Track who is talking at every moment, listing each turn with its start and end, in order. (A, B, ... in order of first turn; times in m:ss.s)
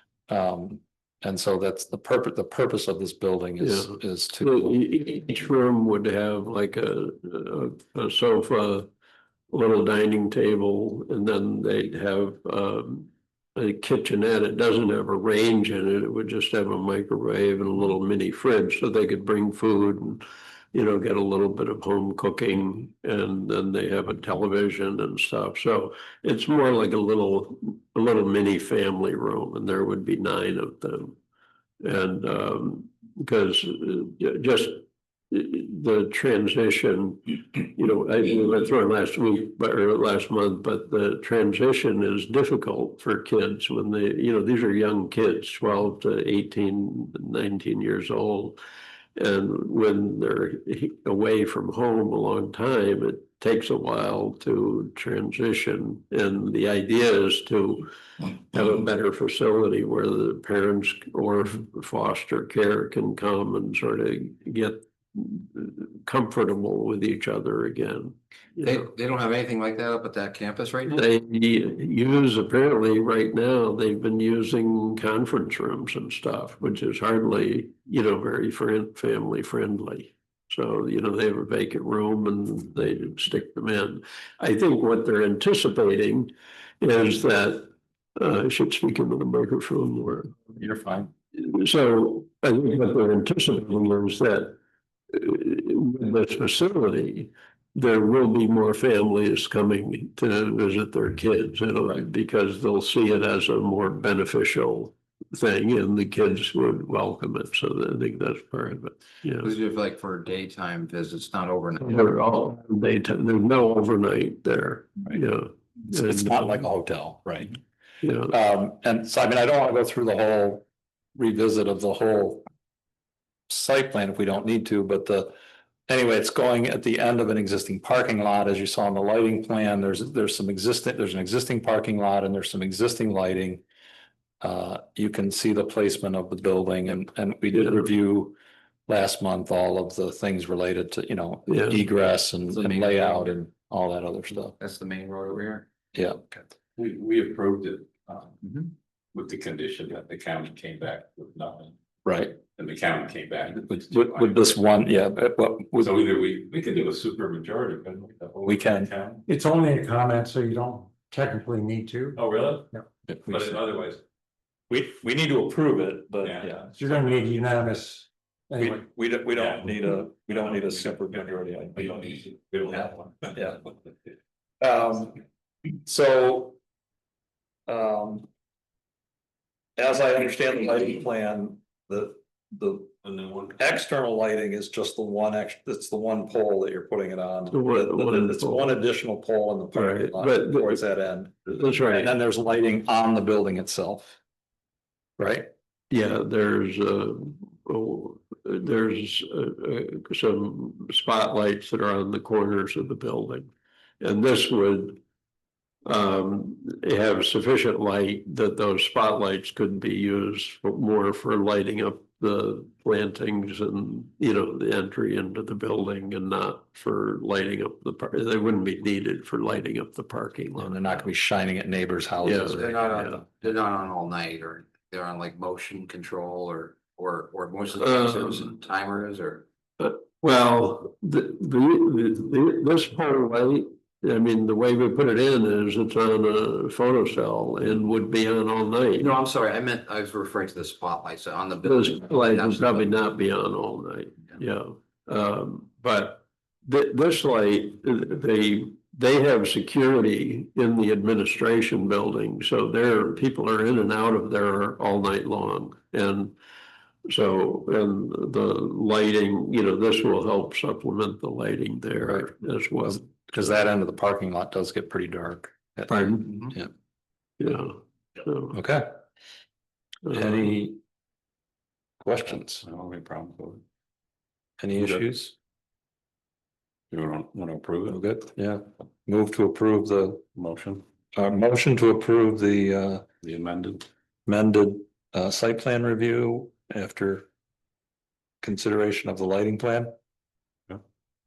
0:00.3-0:04.8 A
0:03.6-0:08.9 B
0:09.5-0:20.2 B
0:20.7-0:31.2 B
0:31.8-0:48.6 B
0:49.2-1:08.8 B
1:08.6-1:11.1 C
1:10.9-1:26.3 B
1:26.8-1:30.4 B
1:30.6-1:31.1 A
1:31.4-1:34.6 B
1:35.1-1:49.5 B
1:49.4-1:52.1 C
1:51.8-1:56.6 B
1:55.9-1:57.6 A
1:58.0-1:58.3 B
1:58.3-2:00.7 A
2:01.2-2:02.4 A
2:03.5-2:05.4 A
2:05.9-2:13.6 A
2:14.4-2:18.4 A
2:18.9-2:24.5 A
2:21.5-2:21.8 B
2:22.5-2:23.3 C
2:24.6-2:25.7 C
2:26.0-2:26.3 A
2:26.8-2:28.3 D
2:28.4-2:28.7 C
2:29.1-2:31.8 D
2:32.1-2:32.4 A
2:32.4-2:34.6 D
2:33.7-2:35.9 A
2:35.8-2:39.2 D
2:38.4-2:38.9 A
2:39.3-2:42.2 E
2:42.2-2:42.7 D
2:43.1-2:43.6 A
2:43.2-2:44.0 D
2:44.7-2:46.8 A
2:46.2-2:46.6 D
2:46.7-2:48.8 E
2:48.6-2:51.8 A
2:49.4-2:49.7 D
2:50.3-2:51.0 D
2:51.7-2:53.9 D
2:53.3-2:53.6 A
2:54.6-2:55.2 A
2:55.8-2:56.6 A
2:57.7-2:58.3 A
2:59.8-3:02.9 A
3:03.0-3:03.5 D
3:03.5-3:14.2 A
3:07.5-3:08.8 B
3:09.7-3:10.8 B
3:11.5-3:12.1 B
3:15.2-3:15.5 A
3:15.9-3:25.0 B
3:25.8-3:41.1 B
3:40.6-3:42.8 A
3:42.2-3:43.2 B
3:42.5-3:49.4 C
3:47.8-3:48.5 B
3:49.8-3:59.2 B
3:59.0-4:02.9 C
4:01.6-4:16.3 B
4:17.1-4:23.1 B
4:22.8-4:26.7 A
4:25.9-4:26.3 B
4:27.4-4:28.6 B
4:28.5-4:29.0 A
4:30.1-4:30.5 B
4:30.1-4:30.8 A
4:32.0-4:32.6 A
4:32.6-4:33.6 D
4:34.6-4:35.4 A
4:34.8-4:35.0 D
4:36.9-4:38.1 D
4:37.9-4:40.2 A
4:40.4-4:40.8 D
4:41.2-4:43.0 A
4:43.2-4:43.9 D
4:44.3-4:47.3 A
4:48.4-4:49.9 A